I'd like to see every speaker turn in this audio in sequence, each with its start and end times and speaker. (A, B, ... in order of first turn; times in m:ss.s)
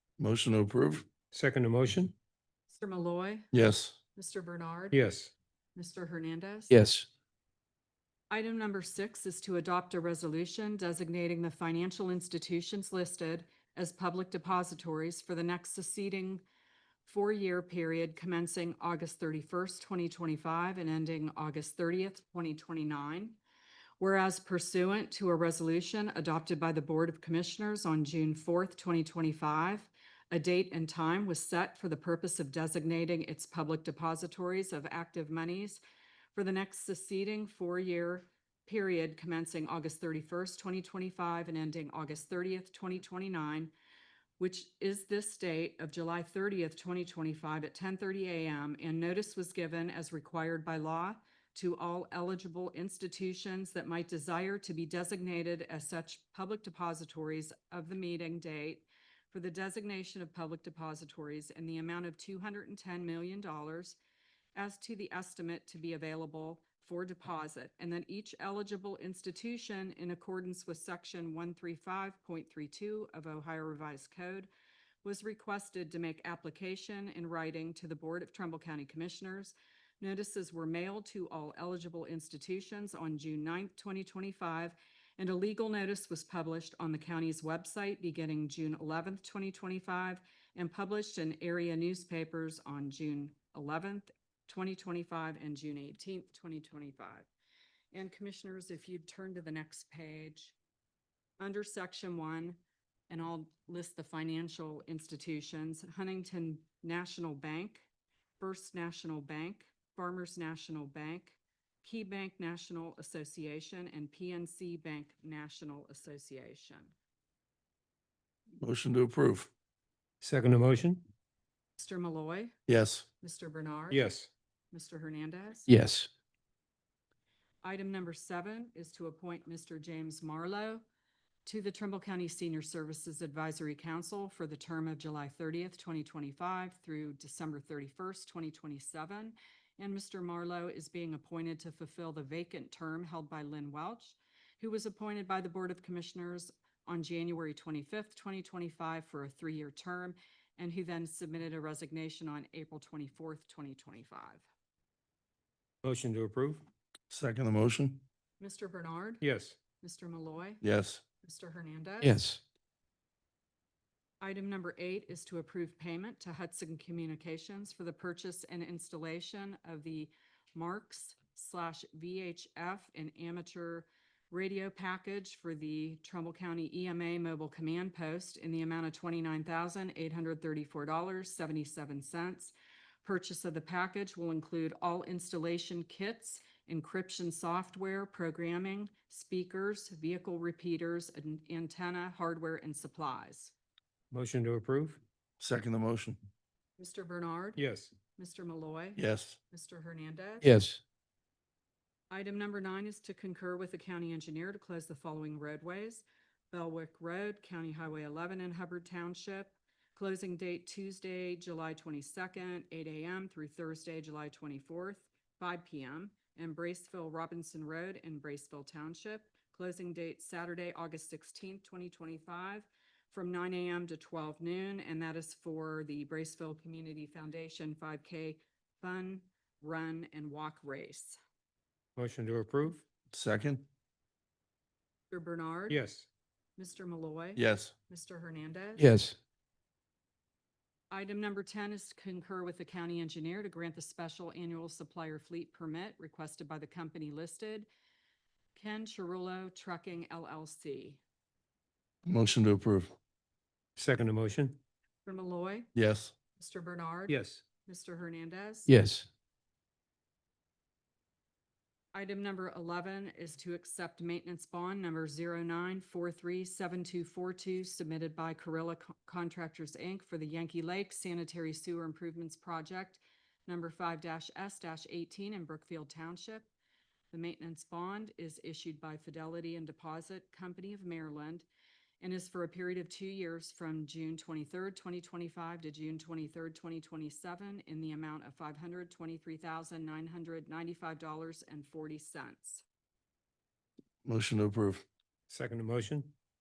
0:00.2-0:01.0 A
0:01.3-0:02.1 B
0:02.7-0:03.5 C
0:03.5-0:04.0 A
0:04.2-0:05.0 C
0:04.9-0:05.3 B
0:05.8-0:06.7 C
0:06.7-0:07.1 D
0:08.3-0:16.4 C
0:17.1-0:23.4 C
0:24.0-0:35.8 C
0:36.3-0:43.7 C
0:44.4-1:04.0 C
1:04.6-1:14.5 C
1:15.0-1:37.3 C
1:37.9-1:40.6 C
1:41.4-1:47.9 C
1:48.4-1:56.9 C
1:58.6-1:59.5 A
2:00.2-2:01.0 B
2:01.8-2:02.6 C
2:02.7-2:03.0 A
2:03.2-2:04.1 C
2:03.9-2:04.3 B
2:04.7-2:05.7 C
2:05.7-2:06.1 D
2:07.6-2:10.8 C
2:11.4-2:34.4 C
2:35.8-2:36.6 B
2:37.1-2:38.0 A
2:38.4-2:39.2 C
2:39.2-2:39.6 B
2:39.8-2:40.6 C
2:40.6-2:41.0 A
2:41.2-2:42.2 C
2:42.0-2:42.4 D
2:44.2-3:13.5 C
3:14.1-3:15.0 B
3:15.4-3:16.2 A
3:16.8-3:17.6 C
3:17.6-3:17.9 B
3:18.2-3:20.5 C
3:19.0-3:19.4 A
3:20.4-3:20.8 D
3:22.1-3:51.2 C
3:52.0-3:52.8 B
3:53.1-3:53.7 A
3:55.1-3:55.8 C
3:55.7-3:56.1 B
3:56.6-3:58.9 C
3:57.4-3:57.7 A
3:58.8-3:59.2 D
4:00.9-4:07.7 C
4:08.6-4:11.0 C
4:12.1-4:12.9 A
4:13.8-4:14.6 B
4:15.0-4:15.7 C
4:15.8-4:16.1 A
4:16.4-4:18.7 C
4:17.1-4:17.4 B
4:18.7-4:19.1 D
4:21.9-4:36.5 C
4:37.1-4:41.5 C
4:42.0-4:52.6 C
4:54.0-4:54.8 A
4:55.3-4:56.1 B